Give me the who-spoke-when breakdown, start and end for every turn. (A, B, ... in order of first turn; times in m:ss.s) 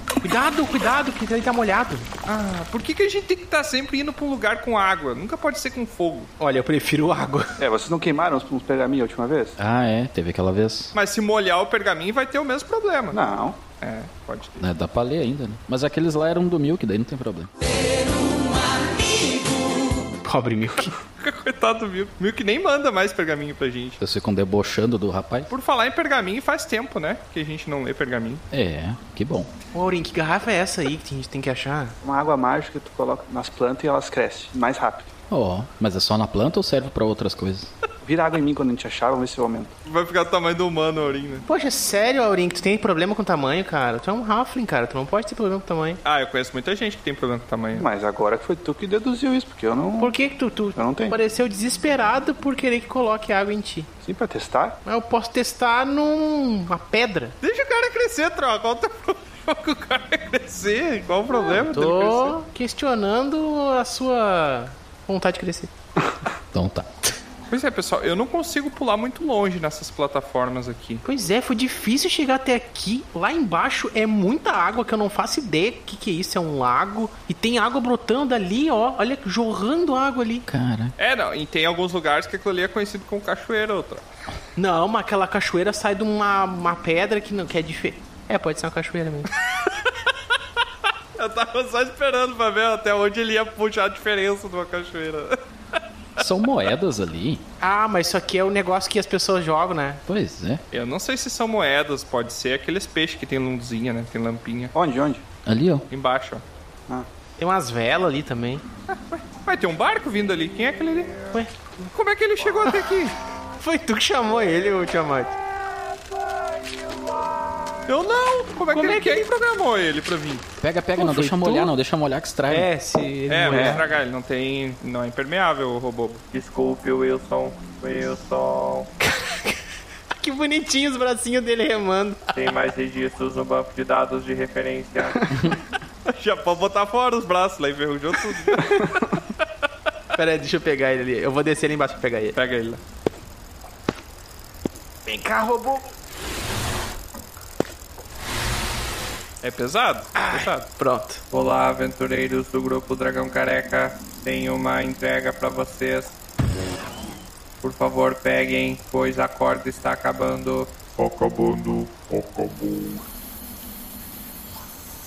0:00.2-0:02.1 A
0:02.3-0:06.3 B
0:06.4-0:07.5 A
0:07.6-0:09.6 C
0:09.6-0:10.9 D
0:10.9-0:13.2 B
0:13.1-0:13.6 C
0:13.8-0:14.7 B
0:14.6-0:17.5 D
0:20.2-0:20.9 A
0:21.2-0:24.0 B
0:24.0-0:25.5 D
0:25.5-0:28.4 B
0:28.5-0:29.5 D
0:29.7-0:32.0 A
0:32.0-0:35.1 C
0:35.3-0:37.7 D
0:38.0-0:39.8 C
0:39.8-0:41.4 B
0:41.5-0:46.0 A
0:46.0-0:47.9 B
0:47.8-0:50.1 C
0:50.0-0:53.9 A
0:50.8-0:51.2 C
0:54.0-0:54.8 C
0:54.9-0:57.4 A
0:57.4-1:02.4 B
1:01.3-1:05.7 A
1:06.5-1:06.9 D
1:07.5-1:11.0 B
1:11.0-1:20.5 A
1:20.5-1:20.9 D
1:21.0-1:24.0 B
1:24.6-1:29.3 A
1:31.2-1:35.8 B
1:36.2-1:37.4 D
1:37.6-1:40.0 A
1:40.1-1:40.6 D
1:40.7-1:44.7 B
1:44.7-1:45.2 C
1:45.5-1:45.9 D
1:45.9-1:46.4 B
1:47.4-1:48.6 A
1:48.9-1:51.3 B
1:51.9-1:53.2 B
1:53.6-1:55.4 A
1:57.9-2:00.5 B
1:58.7-1:59.3 A
2:00.6-2:02.7 D
2:01.0-2:01.7 A
2:02.5-2:03.8 A
2:03.3-2:06.2 B
2:03.5-2:03.8 C
2:06.3-2:08.9 E
2:09.1-2:09.6 A
2:10.2-2:12.3 A
2:12.4-2:15.2 E
2:16.1-2:18.9 B
2:18.4-2:18.8 A
2:20.2-2:22.4 A
2:22.4-2:22.8 B
2:25.1-2:25.8 A
2:29.4-2:30.7 B
2:30.2-2:31.2 A
2:31.3-2:36.1 E
2:37.6-2:42.9 E